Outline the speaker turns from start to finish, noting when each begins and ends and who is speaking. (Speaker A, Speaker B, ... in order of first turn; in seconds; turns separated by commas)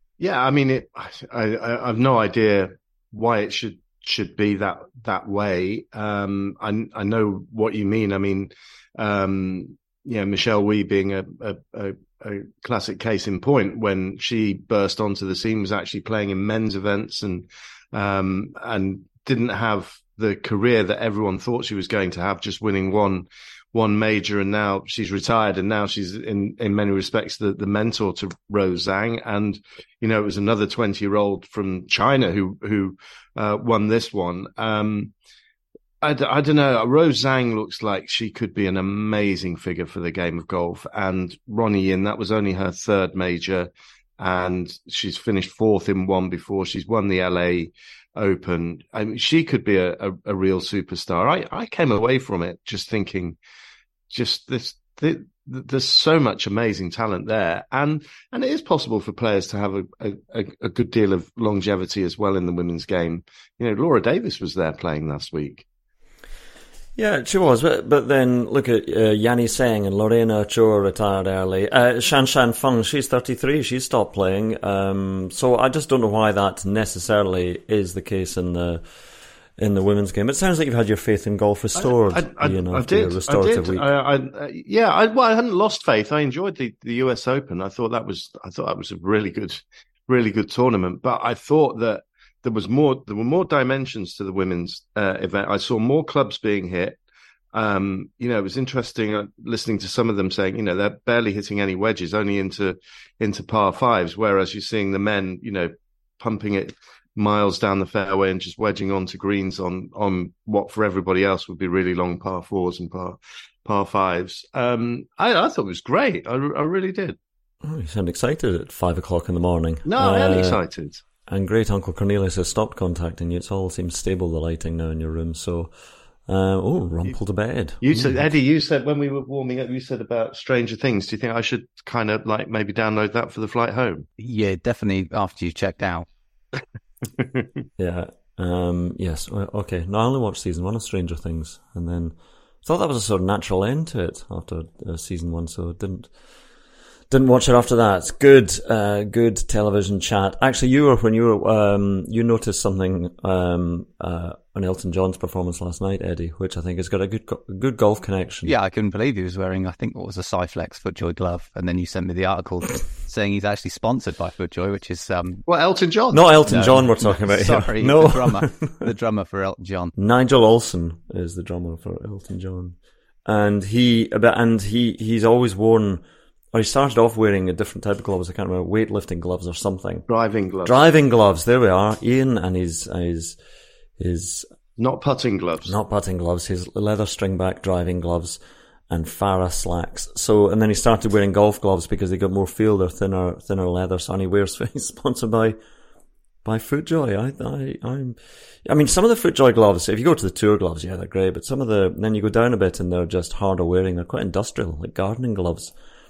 Speaker A: 0.2-35.1, Speaker A: 36.0-53.4, Speaker A: 54.1-65.6, Speaker B: 67.0-78.8, Speaker B: 79.6-83.9, Speaker A: 81.8-97.0, Speaker A: 97.5-117.2, Speaker B: 117.6-120.6, Speaker A: 119.8-121.0, Speaker B: 121.3-125.7, Speaker B: 126.3-128.3, Speaker A: 127.8-134.1, Speaker C: 134.2-136.1, Speaker A: 137.2-137.4, Speaker B: 137.8-146.1, Speaker B: 147.1-158.5, Speaker C: 158.4-165.4, Speaker A: 165.5-166.6, Speaker B: 166.1-168.7, Speaker C: 166.4-169.9, Speaker B: 169.9-172.7, Speaker B: 173.2-180.0, Speaker A: 180.1-180.8, Speaker B: 180.6-183.3, Speaker B: 184.0-184.5, Speaker A: 184.8-185.7, Speaker B: 185.6-188.4, Speaker B: 188.9-195.6, Speaker B: 196.4-205.7